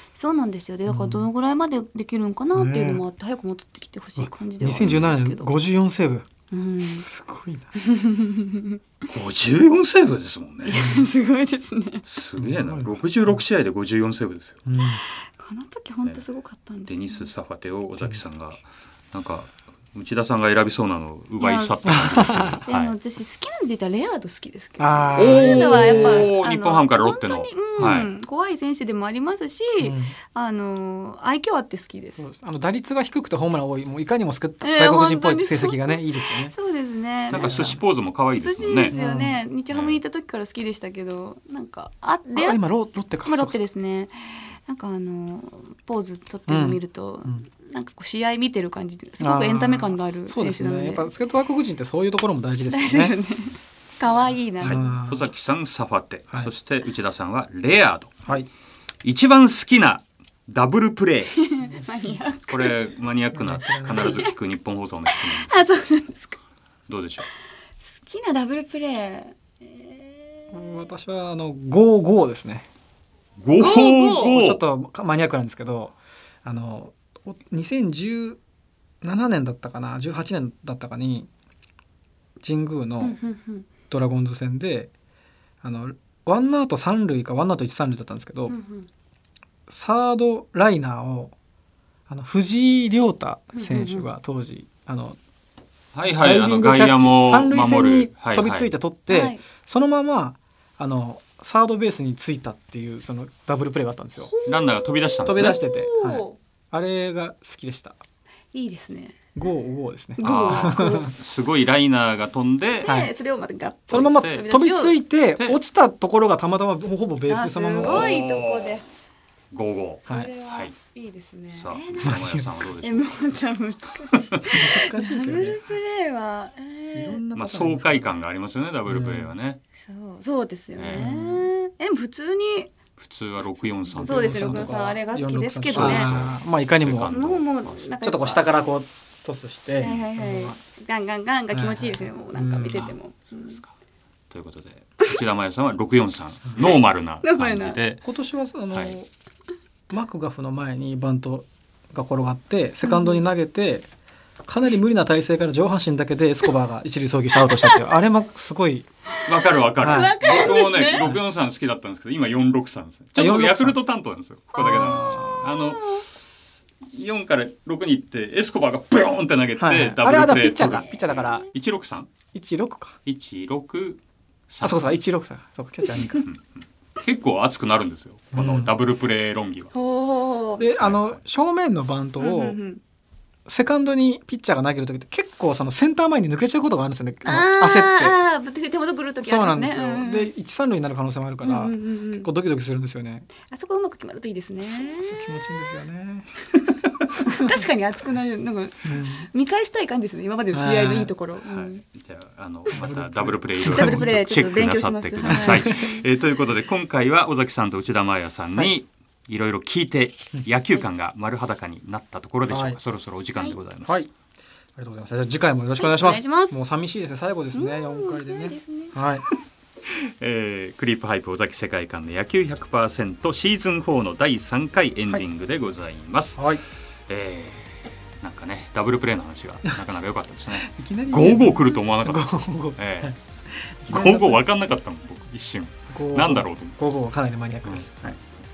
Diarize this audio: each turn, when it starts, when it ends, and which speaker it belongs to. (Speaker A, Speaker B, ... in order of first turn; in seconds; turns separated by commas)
Speaker A: 0.1-5.5, Speaker B: 0.9-1.3, Speaker B: 2.5-3.0, Speaker B: 4.2-6.3, Speaker A: 6.5-7.0, Speaker B: 7.0-7.7, Speaker A: 7.8-8.8, Speaker C: 9.1-10.9, Speaker A: 10.6-12.1, Speaker B: 10.7-11.1, Speaker C: 12.1-14.6, Speaker B: 12.4-13.4, Speaker B: 14.7-15.0, Speaker A: 14.8-17.3, Speaker C: 16.9-22.9, Speaker B: 18.0-18.2, Speaker A: 21.4-32.2, Speaker B: 21.9-22.6, Speaker B: 24.8-26.3, Speaker C: 25.1-28.1, Speaker B: 29.8-30.2, Speaker B: 32.2-36.5, Speaker A: 34.6-37.7, Speaker B: 37.3-37.8, Speaker C: 37.3-39.0, Speaker A: 38.4-42.6, Speaker B: 38.9-39.5, Speaker C: 39.7-40.0, Speaker B: 42.3-43.6, Speaker A: 43.2-51.1, Speaker B: 46.5-47.5, Speaker B: 49.2-53.1, Speaker A: 52.7-54.9, Speaker C: 54.6-58.3, Speaker B: 54.6-55.3, Speaker C: 59.0-61.4, Speaker A: 61.4-62.8, Speaker B: 61.6-62.2, Speaker C: 62.5-65.6, Speaker B: 63.3-64.3, Speaker A: 63.9-64.3, Speaker A: 65.1-66.4, Speaker C: 66.9-67.3, Speaker A: 67.9-70.5, Speaker B: 70.5-72.7, Speaker C: 73.4-74.6, Speaker A: 73.5-74.4, Speaker B: 74.3-78.4, Speaker B: 79.0-81.3, Speaker B: 82.4-83.2, Speaker A: 83.0-83.7, Speaker B: 83.9-84.9, Speaker B: 85.6-88.5, Speaker A: 88.5-88.9, Speaker B: 89.7-91.3, Speaker B: 92.1-95.2, Speaker A: 93.5-94.1, Speaker C: 95.9-98.7, Speaker B: 96.1-104.3, Speaker A: 99.1-99.4, Speaker A: 104.2-106.4, Speaker C: 104.5-105.6, Speaker B: 105.2-108.0, Speaker A: 108.5-109.2, Speaker B: 109.3-111.1, Speaker A: 110.2-111.1, Speaker C: 110.2-112.9, Speaker A: 112.8-115.0, Speaker B: 112.9-113.1, Speaker C: 113.9-114.4, Speaker B: 113.9-118.2, Speaker A: 117.3-118.9, Speaker C: 117.8-118.8, Speaker C: 119.5-120.7, Speaker B: 120.1-120.3, Speaker A: 120.1-122.2, Speaker C: 121.5-123.1, Speaker B: 122.0-122.5, Speaker A: 122.8-127.2, Speaker C: 124.1-124.5, Speaker B: 124.5-125.7, Speaker B: 126.9-128.1, Speaker C: 127.3-129.6, Speaker B: 128.8-129.3, Speaker A: 129.8-132.7, Speaker C: 130.8-131.5, Speaker B: 130.9-131.3, Speaker C: 133.0-134.8, Speaker B: 133.9-137.1, Speaker A: 134.0-136.1, Speaker C: 135.7-137.9, Speaker A: 137.0-138.5, Speaker B: 138.0-140.6, Speaker A: 139.8-143.6, Speaker B: 141.5-143.0, Speaker C: 144.3-148.0, Speaker A: 147.2-147.8, Speaker B: 148.0-149.1, Speaker C: 148.7-149.0, Speaker B: 149.9-153.9, Speaker A: 152.8-153.2, Speaker B: 154.5-158.9, Speaker A: 157.4-157.8, Speaker A: 159.2-161.2, Speaker C: 159.3-166.1, Speaker B: 159.8-160.2, Speaker B: 163.2-163.8, Speaker B: 164.6-165.5, Speaker A: 164.7-164.9, Speaker A: 165.6-166.1, Speaker C: 166.8-172.1, Speaker B: 169.6-171.5, Speaker A: 170.6-171.5, Speaker B: 172.3-173.0, Speaker C: 173.1-175.0, Speaker B: 174.6-176.2, Speaker A: 175.9-176.2, Speaker C: 176.2-179.7, Speaker B: 178.3-178.7, Speaker A: 179.7-180.7, Speaker B: 180.6-182.6, Speaker C: 180.8-181.2, Speaker A: 182.2-182.8, Speaker B: 183.5-188.2, Speaker A: 187.2-190.3, Speaker B: 189.2-193.3, Speaker A: 191.4-192.3, Speaker A: 193.4-195.4, Speaker B: 194.6-196.3, Speaker A: 197.3-201.8, Speaker B: 198.8-199.3, Speaker B: 200.5-201.1, Speaker C: 201.4-214.0, Speaker B: 202.7-204.1, Speaker A: 203.6-206.1, Speaker B: 205.2-205.9, Speaker B: 212.5-212.8, Speaker B: 213.8-214.1, Speaker B: 214.8-219.3, Speaker A: 215.8-216.6, Speaker A: 217.5-219.0, Speaker C: 219.9-226.6, Speaker B: 226.4-226.6, Speaker C: 227.1-233.1, Speaker B: 230.6-234.5, Speaker C: 233.9-236.8, Speaker B: 235.9-237.9, Speaker C: 237.6-238.2